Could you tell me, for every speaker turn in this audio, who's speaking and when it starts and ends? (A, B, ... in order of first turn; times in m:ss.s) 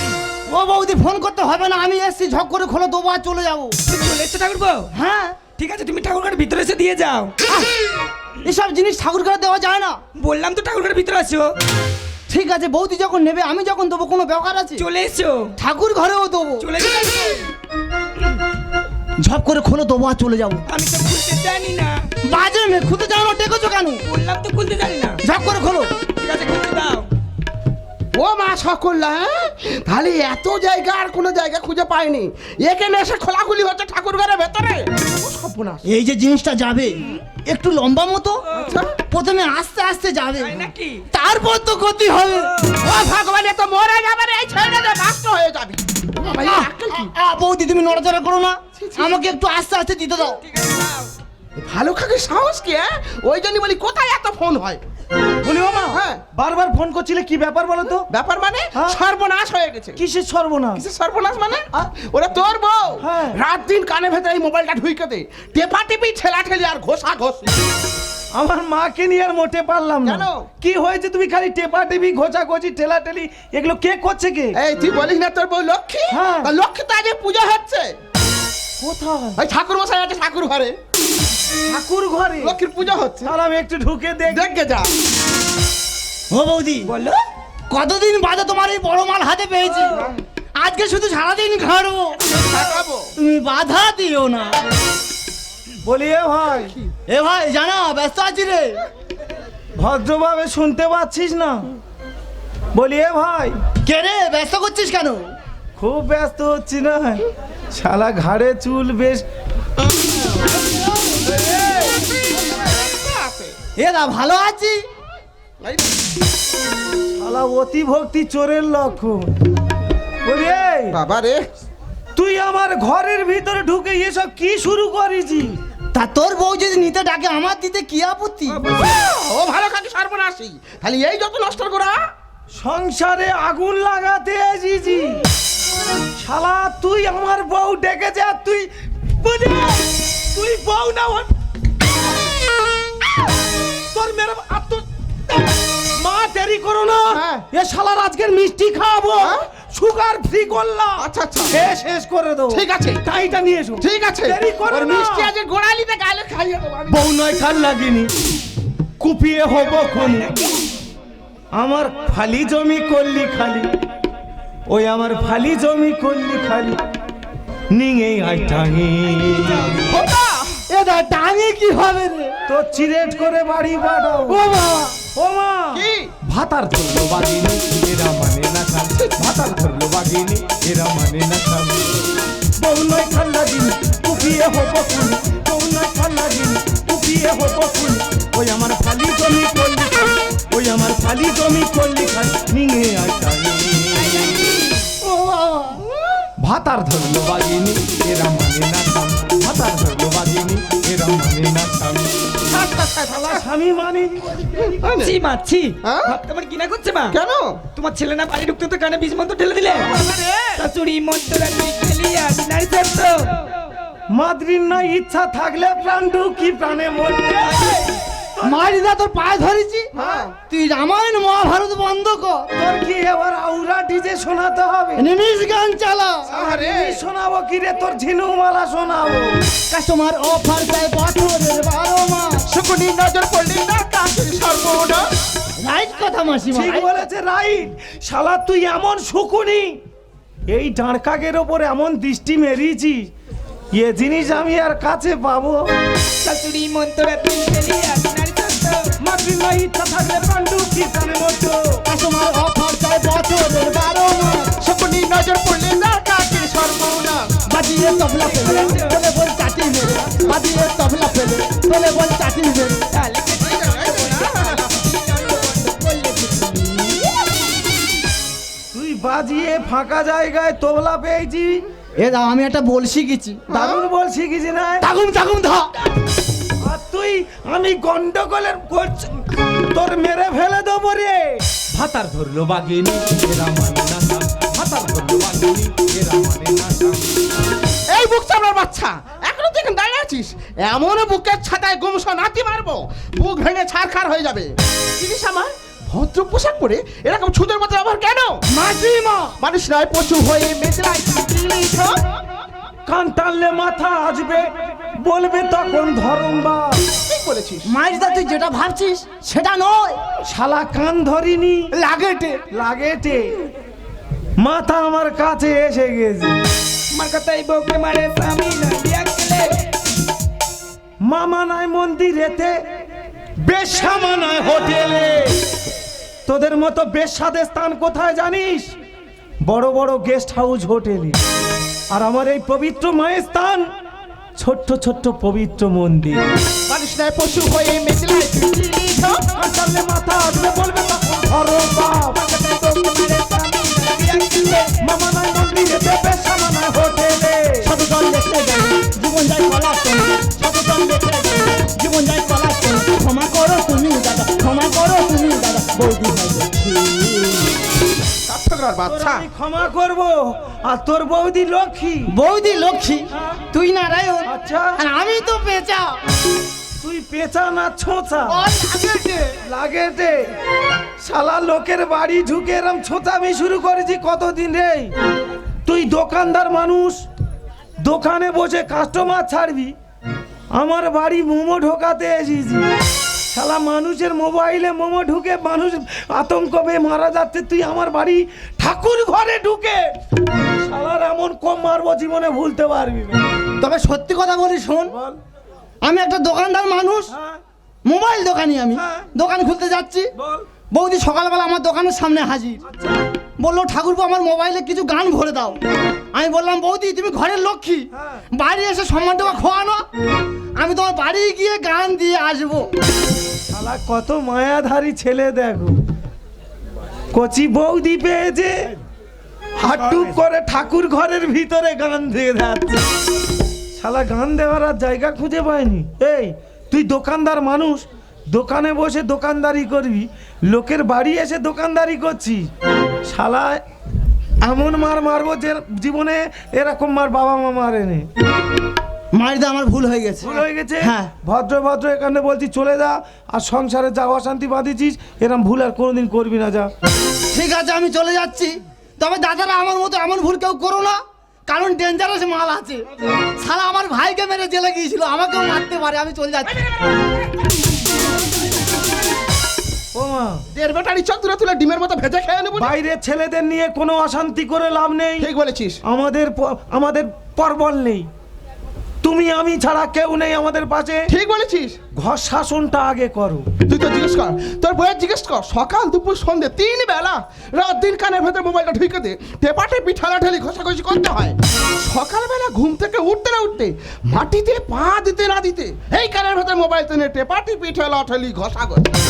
0:00.5-0:03.8 A
0:03.9-0:04.9 B
0:04.9-0:05.4 A
0:05.5-0:07.3 B
0:07.4-0:07.7 A
0:08.4-0:10.0 A
0:10.2-0:11.5 B
0:12.3-0:14.8 A
0:14.8-0:15.5 B
0:15.6-0:16.7 A
0:16.6-0:17.5 B
0:19.2-0:20.6 A
0:20.7-0:22.0 B
0:22.3-0:24.0 A
0:24.0-0:25.2 B
0:25.2-0:25.9 A
0:26.2-0:27.1 B
0:28.1-0:35.8 C
0:35.8-0:38.4 A
0:38.5-0:39.0 C
0:39.0-0:42.7 A
0:40.4-0:41.0 B
0:42.8-0:47.1 C
0:46.2-0:50.4 A
0:48.8-0:49.1 C
0:50.4-0:51.1 B
0:51.6-0:54.8 C
0:55.4-0:58.1 D
0:55.9-0:56.2 C
0:58.1-1:00.0 C
0:58.7-0:59.0 D
1:00.0-1:00.8 D
1:00.7-1:07.6 C
1:03.0-1:03.4 D
1:08.3-1:14.6 D
1:10.0-1:10.5 C
1:14.5-1:17.9 C
1:16.1-1:16.5 D
1:18.8-1:19.4 D
1:19.4-1:20.8 C
1:21.7-1:22.6 D
1:22.4-1:23.3 C
1:23.2-1:24.5 D
1:24.3-1:24.9 C
1:26.3-1:26.9 A
1:26.8-1:27.2 B
1:27.7-1:32.2 A
1:29.9-1:30.2 C
1:32.3-1:33.1 C
1:33.2-1:34.6 A
1:35.8-1:36.7 D
1:37.1-1:38.8 A
1:39.8-1:41.7 D
1:42.7-1:43.6 D
1:43.8-1:45.3 A
1:45.8-1:49.2 D
1:51.3-1:53.6 C
1:53.8-1:54.8 A
1:55.6-1:55.9 C
1:57.1-1:59.2 D
2:00.2-2:01.0 D
2:00.9-2:01.4 C
2:02.1-2:05.6 D
2:05.9-2:08.6 A
2:08.5-2:09.0 B
2:08.7-2:12.0 C
2:12.6-2:15.2 D
2:16.2-2:21.3 D
2:23.9-2:35.3 D
2:27.1-2:27.4 C
2:29.2-2:29.5 C
2:31.0-2:31.6 C
2:32.5-2:33.0 C
2:33.8-2:37.0 C
2:36.9-2:38.1 D
2:39.0-2:40.3 D
2:39.9-2:40.5 B
2:41.5-2:43.7 D
2:44.7-2:46.8 D
2:47.7-2:49.8 D
2:49.8-2:50.6 C
2:50.7-2:52.4 A
2:52.5-2:54.5 D
2:54.3-2:55.0 A
2:55.1-3:01.9 D
2:55.7-2:56.1 C
2:58.9-2:59.2 C
3:02.6-3:14.5 D
3:14.0-3:14.7 B
3:15.0-3:15.8 A
3:16.4-3:22.3 D
3:22.4-3:23.4 C
3:23.1-3:24.6 D
3:24.6-3:25.1 C
3:25.0-3:27.2 B
3:25.8-3:26.2 C
3:27.1-3:27.6 C
3:27.7-3:29.9 B
3:29.7-3:30.6 C
3:30.6-3:33.5 B
3:34.1-3:38.6 D
3:37.4-3:38.0 B
3:38.4-3:42.5 A
3:39.9-3:40.3 C
3:40.0-3:40.2 D
3:42.5-3:45.0 D
3:45.0-3:46.3 A
3:46.3-3:49.4 D
3:46.3-3:47.0 C
3:49.7-3:52.4 A
3:52.5-3:55.1 C
3:55.6-3:57.0 A
3:56.5-3:59.8 D
4:00.5-4:03.1 D
4:03.7-4:05.6 D
4:06.2-4:08.9 B
4:09.0-4:11.8 D
4:11.8-4:14.6 A
4:14.6-4:17.4 C
4:17.5-4:22.8 A
4:18.3-4:19.0 B
4:20.0-4:20.4 C
4:22.9-4:27.2 B
4:23.4-4:24.8 C
4:28.7-4:31.6 D
4:32.0-4:33.5 A
4:33.5-4:33.8 C
4:33.5-4:34.9 D
4:34.8-4:35.7 A
4:36.6-4:47.1 D
4:47.9-4:58.4 C
4:58.5-4:59.4 A
4:59.4-5:02.0 C
5:02.9-5:06.8 D
5:07.0-5:07.7 C
5:07.6-5:10.0 A
5:10.2-5:11.7 D
5:11.7-5:12.4 A
5:12.5-5:13.3 D
5:14.4-5:16.3 D
5:16.9-5:19.7 B
5:21.0-5:22.6 D
5:23.4-5:25.4 D
5:26.2-5:28.7 D
5:29.4-5:31.2 D
5:31.9-5:33.7 D
5:34.4-5:36.2 D
5:36.7-5:39.2 C
5:39.4-5:42.2 D
5:42.1-5:44.7 B
5:44.8-5:47.7 D
5:47.6-5:57.6 A
5:58.2-5:59.2 C
5:58.8-6:02.1 D
6:02.1-6:06.0 A
6:04.2-6:04.8 D
6:06.8-6:08.4 D
6:08.2-6:09.4 A
6:09.4-6:10.3 D
6:11.0-6:14.9 D
6:15.6-6:17.0 D
6:17.8-6:19.7 D
6:20.5-6:22.6 D
6:23.3-6:33.2 D
6:33.6-6:35.0 A
6:34.9-6:35.2 D
6:35.8-6:37.1 A
6:37.1-6:37.4 D
6:37.8-6:40.1 A
6:38.7-6:39.1 D
6:40.2-6:40.4 D
6:40.7-6:42.6 A
6:42.7-6:43.0 D
6:43.4-6:45.6 A
6:46.1-6:49.8 A
6:47.9-6:48.2 D
6:50.6-6:52.7 A
6:53.5-6:55.7 D
6:57.1-6:58.7 D
6:59.6-7:02.8 D
6:59.6-7:00.2 B
7:03.8-7:12.5 D
7:13.1-7:13.6 D
7:14.4-7:18.1 D
7:19.1-7:21.1 A
7:20.2-7:26.7 D
7:27.3-7:36.6 A
7:36.5-7:37.3 C
7:39.9-7:40.4 D
7:40.5-7:42.7 C
7:42.6-7:45.3 D
7:45.2-7:45.8 C
7:45.8-7:48.1 D
7:49.0-7:51.1 D
7:51.1-7:51.8 C
7:51.9-7:53.5 D
7:53.7-8:08.8 C